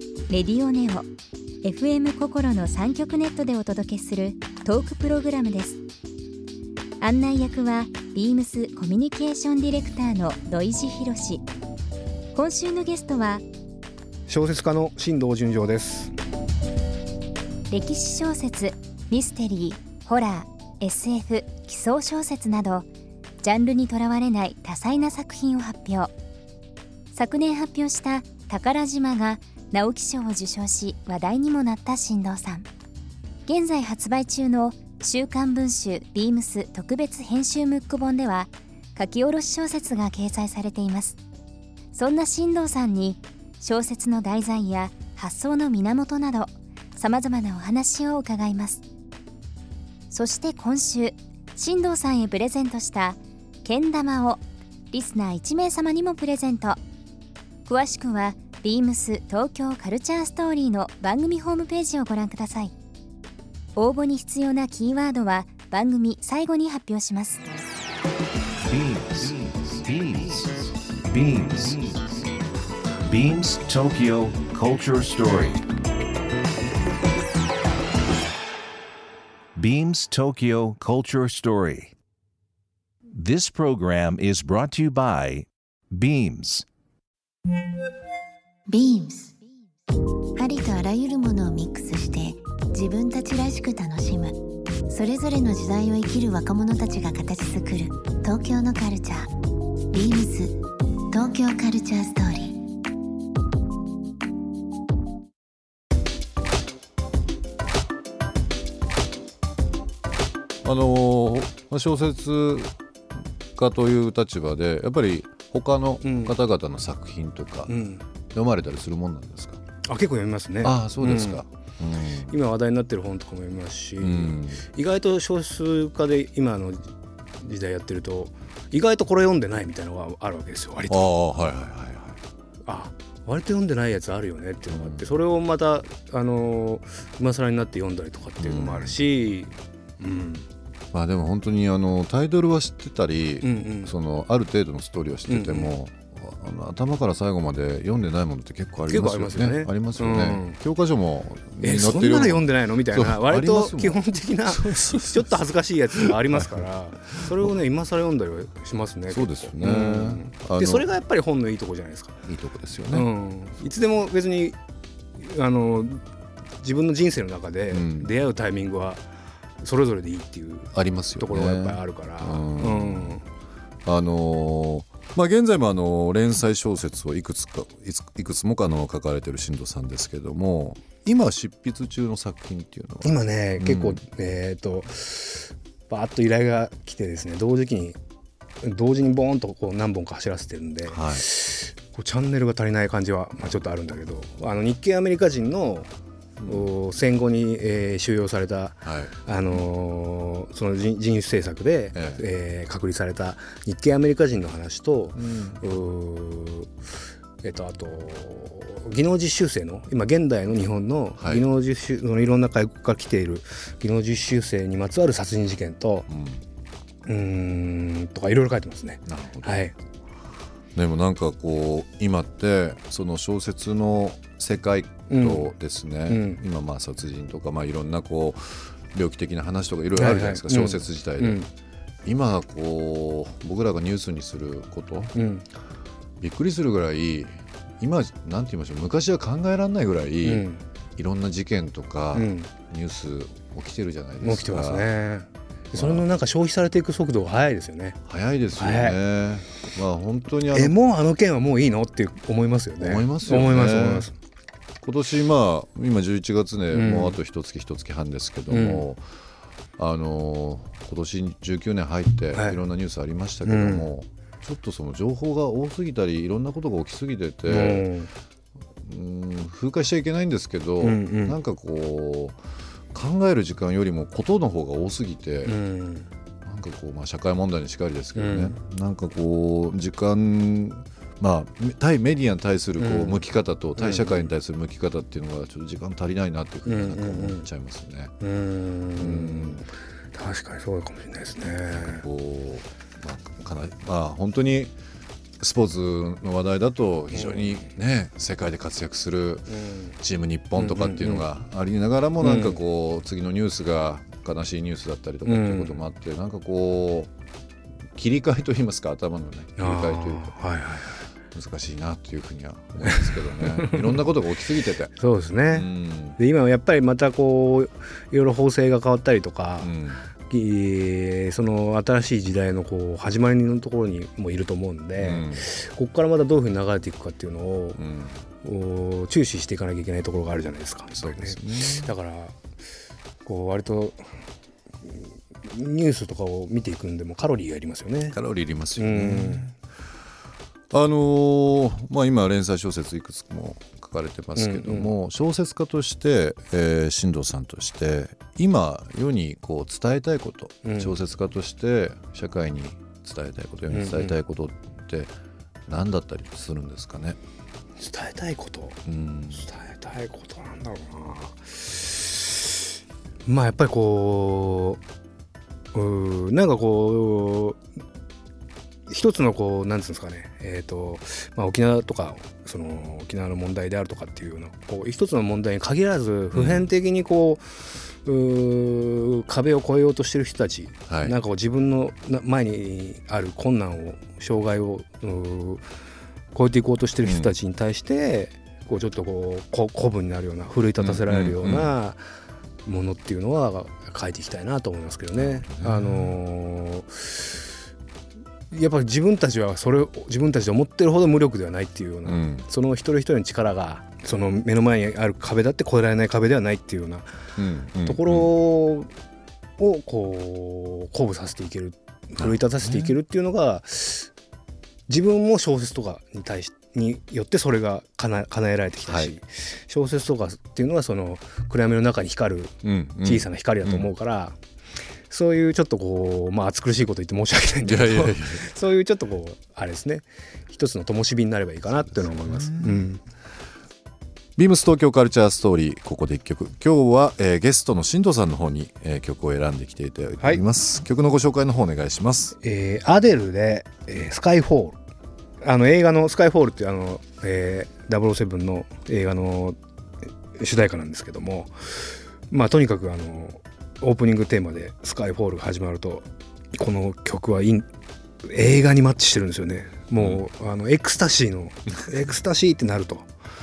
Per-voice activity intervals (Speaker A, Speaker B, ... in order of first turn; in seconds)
Speaker A: 0.3-1.1, 1.6-5.8, 7.0-11.4, 12.3-13.4, 17.7-22.9, 23.4-26.1, 27.1-32.7, 33.5-41.2, 41.9-48.8, 50.1-56.8, 57.7-62.7, 63.8-67.4
Speaker B: 14.3-16.1, 116.0-116.3, 117.7-118.0, 119.9-121.4, 122.3-126.9, 127.4-131.1, 132.7-140.5, 143.4-143.9, 145.3-145.7, 148.9-150.6, 151.6-162.2, 162.9-164.6, 165.2-166.0, 166.6-169.1, 169.6-173.2, 183.0-188.0, 188.6-195.9, 196.5-206.7, 207.4-216.1, 217.1-219.7, 225.1-225.5, 226.1-226.4, 230.0-231.5, 235.2-235.4, 240.2-240.6, 242.1-242.5, 244.2-248.0, 248.6-249.0, 250.5-254.1, 256.7-257.2, 258.5-258.9, 262.4-262.6, 263.4-263.9, 267.5-268.1, 270.8-271.4, 275.5-276.1, 278.1-278.6, 282.8-283.2, 283.8-284.3, 286.6-287.5, 288.2-292.0, 297.1-297.6, 299.5-299.9, 300.6-301.2, 302.2-302.6, 305.3-305.8, 309.6-311.0, 315.0-315.7, 316.2-319.7, 320.3-327.8, 328.4-332.4, 333.2-334.0, 334.9-338.2, 338.8-339.5, 344.4-344.9, 350.6-350.9, 353.7-354.2, 357.8-358.8, 359.4-362.3, 363.3-364.8, 365.7-367.6, 368.9-385.7, 386.3-392.0, 392.6-397.3, 398.5-407.2, 407.9-408.9, 409.6-414.1, 414.9-424.4, 425.1-433.0, 442.4-444.8, 445.4-449.6, 450.4-451.5, 452.3-457.6, 458.2-463.1
Speaker C: 68.6-72.2, 73.0-75.7, 79.5-81.9, 83.1-86.7
Speaker D: 88.7-89.3, 90.4-94.4, 94.9-99.3, 99.9-100.6, 101.1-102.6
Speaker E: 110.6-112.7, 113.6-117.8, 118.3-119.6, 120.6-122.3, 124.0-124.7, 130.9-132.2, 134.7-135.1, 138.4-139.0, 140.9-157.6, 159.1-160.9, 162.2-163.1, 167.7-168.1, 170.7-173.2, 173.9-184.0, 190.9-191.3, 196.4-196.7, 198.8-199.2, 201.9-202.2, 205.1-205.6, 211.2-211.4, 216.1-216.4, 219.1-219.7, 220.8-231.4, 232.1-235.2, 236.2-244.9, 245.7-246.1, 248.1-250.8, 252.8-254.1, 254.8-259.1, 259.8-267.9, 268.8-272.4, 272.9-275.6, 276.4-288.1, 289.0-289.6, 291.7-294.8, 295.4-307.1, 307.9-310.5, 311.3-314.9, 315.5-316.2, 319.6-320.1, 325.0-325.5, 327.8-328.2, 331.0-331.9, 338.1-339.5, 340.7-355.1, 355.7-357.2, 358.9-359.5, 376.3-376.7, 380.9-381.1, 387.0-387.3, 390.8-391.7, 395.1-396.2, 402.1-402.5, 407.4-408.3, 412.2-412.9, 418.9-419.1, 422.6-423.9, 427.6-428.5, 431.9-432.9, 434.4-442.4, 460.0-460.2